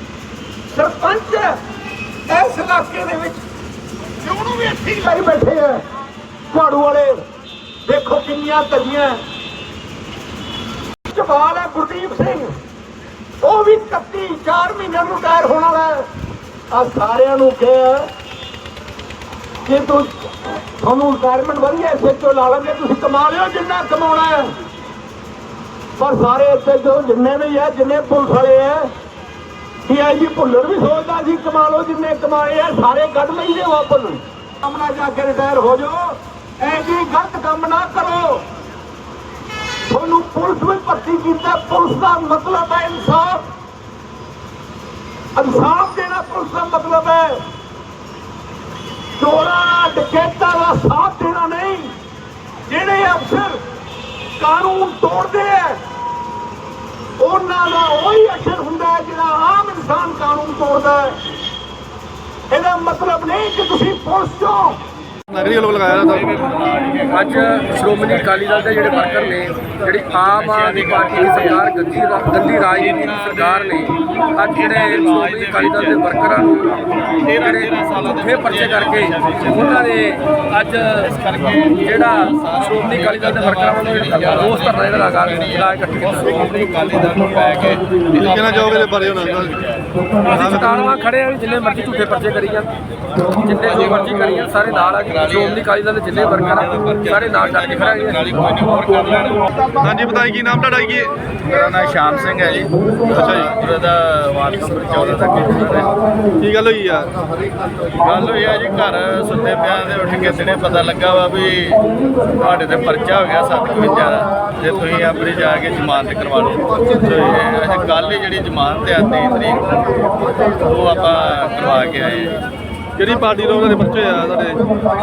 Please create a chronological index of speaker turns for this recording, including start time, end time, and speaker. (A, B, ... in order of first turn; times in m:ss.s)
0:00.7-0:01.6 A
0:02.3-0:03.4 A
0:04.2-0:05.8 A
0:06.5-0:07.2 A
0:07.9-0:09.2 A
0:11.1-0:12.6 A
0:13.4-0:16.1 A
0:16.7-0:18.1 A
0:19.6-0:24.6 A
0:26.0-0:28.9 A
0:29.8-0:38.5 A
0:39.9-0:43.5 A
0:45.4-0:47.5 A
0:49.2-0:52.0 A
0:52.7-0:53.6 A
0:54.4-0:55.8 A
0:57.2-1:01.2 A
1:02.5-1:04.8 A
1:05.3-1:06.3 B
1:06.0-1:19.9 C
1:07.1-1:21.1 D
1:20.8-1:29.9 C
1:21.6-1:26.4 D
1:28.2-1:29.5 B
1:30.2-1:32.7 D
1:30.3-1:30.9 B
1:33.3-1:38.3 D
1:33.4-1:39.4 C
1:39.8-1:41.1 B
1:41.4-1:46.0 C
1:43.1-1:43.6 B
1:46.4-1:47.2 B
1:48.0-2:02.4 C
2:03.0-2:04.7 B